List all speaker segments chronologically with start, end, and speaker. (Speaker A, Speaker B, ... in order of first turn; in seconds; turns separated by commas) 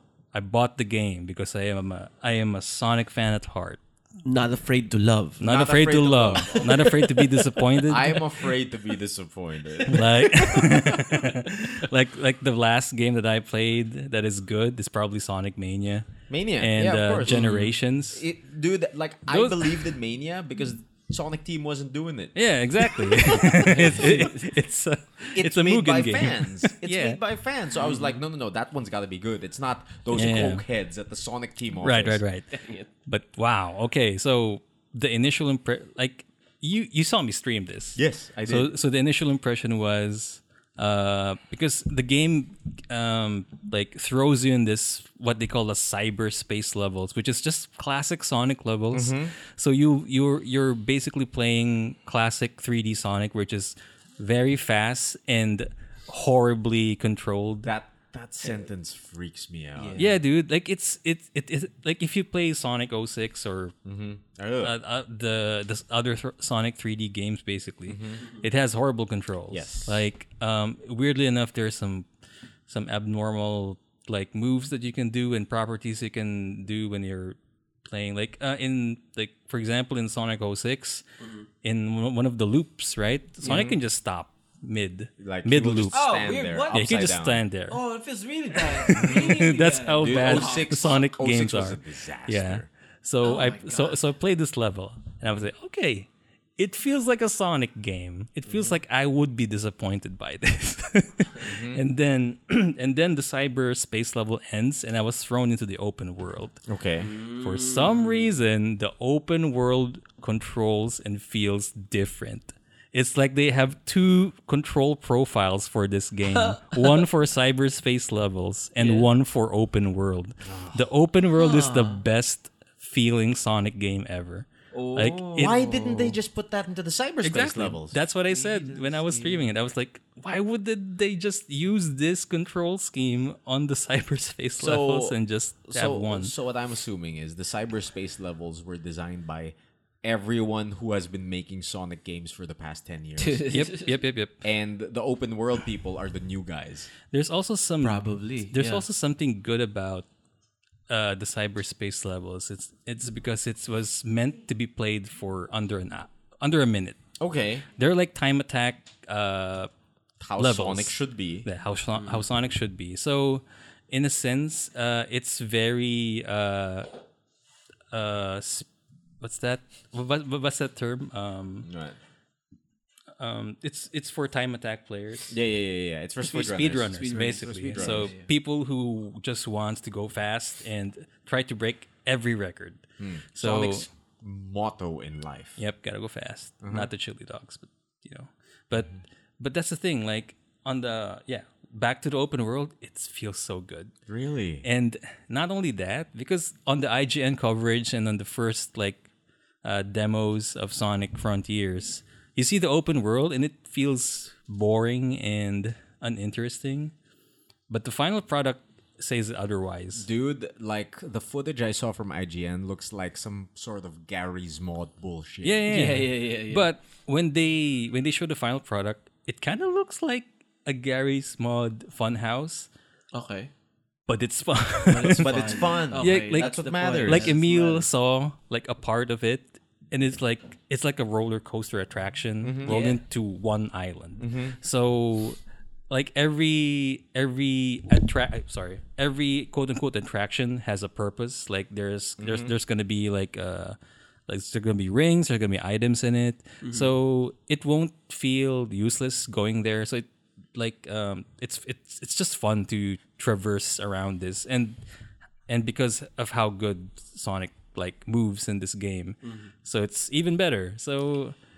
Speaker A: 0.3-3.8, Speaker B: 4.2-5.4, Speaker A: 5.4-8.2, Speaker C: 5.4-7.0, Speaker B: 6.5-7.1, Speaker C: 7.8-11.2, Speaker B: 9.9-11.2, Speaker A: 9.9-16.1, Speaker C: 16.3-24.4, Speaker A: 16.6-18.2, Speaker A: 19.3-19.9, Speaker A: 22.4-27.2, Speaker B: 23.8-24.4, Speaker C: 25.3-32.2, Speaker B: 27.8-28.1, Speaker A: 30.1-30.6, Speaker A: 31.8-32.5, Speaker B: 32.5-32.9, Speaker A: 33.1-57.7, Speaker C: 38.0-38.7, Speaker C: 48.9-49.3, Speaker C: 57.6-60.1, Speaker B: 59.8-60.1, Speaker A: 60.0-63.7, Speaker C: 63.8-64.7, Speaker A: 64.6-72.1, Speaker C: 67.9-68.2, Speaker C: 69.5-70.0, Speaker A: 72.7-81.0, Speaker B: 81.2-81.5, Speaker A: 81.6-86.0, Speaker B: 83.4-83.7, Speaker C: 83.4-83.8, Speaker C: 85.2-87.4, Speaker B: 85.9-86.8, Speaker A: 86.7-87.8, Speaker B: 87.7-91.0, Speaker A: 88.8-106.6, Speaker C: 88.9-89.2, Speaker C: 90.0-92.7, Speaker B: 93.2-94.0, Speaker B: 98.5-98.7, Speaker C: 101.4-101.8, Speaker C: 106.7-107.1, Speaker B: 107.0-108.3, Speaker A: 107.3-125.5, Speaker B: 116.3-117.0, Speaker B: 118.8-119.1, Speaker C: 120.4-120.8, Speaker B: 121.3-122.0, Speaker C: 124.8-128.0, Speaker B: 124.9-126.2, Speaker A: 127.2-136.3, Speaker B: 128.3-129.5, Speaker C: 134.6-135.2, Speaker C: 135.7-143.4, Speaker B: 143.2-143.9, Speaker A: 143.5-144.4, Speaker C: 144.4-146.9, Speaker A: 147.1-150.1, Speaker B: 147.8-148.8, Speaker A: 150.9-156.9, Speaker C: 157.2-157.7, Speaker A: 157.7-159.7, Speaker C: 160.2-161.5, Speaker A: 160.4-166.9, Speaker B: 161.9-162.2, Speaker A: 167.9-168.7, Speaker A: 169.2-171.7, Speaker C: 171.6-171.9, Speaker A: 173.2-175.3, Speaker C: 175.3-178.1, Speaker A: 176.2-182.8, Speaker B: 176.9-178.3, Speaker C: 183.0-185.6, Speaker A: 183.3-183.8, Speaker A: 185.6-193.9, Speaker C: 186.6-186.9, Speaker C: 194.1-194.6, Speaker A: 194.6-199.1, Speaker A: 199.6-206.9, Speaker A: 207.7-210.1, Speaker C: 209.9-215.9, Speaker A: 215.4-222.7, Speaker B: 215.7-216.7, Speaker B: 223.1-223.5, Speaker A: 224.1-235.4, Speaker B: 224.8-227.9, Speaker C: 225.0-227.4, Speaker C: 232.4-232.8, Speaker B: 232.7-233.0, Speaker C: 234.2-234.6, Speaker A: 235.9-243.8, Speaker C: 242.2-242.5, Speaker A: 244.3-254.8, Speaker B: 246.6-246.9, Speaker A: 255.5-261.4, Speaker B: 259.2-259.5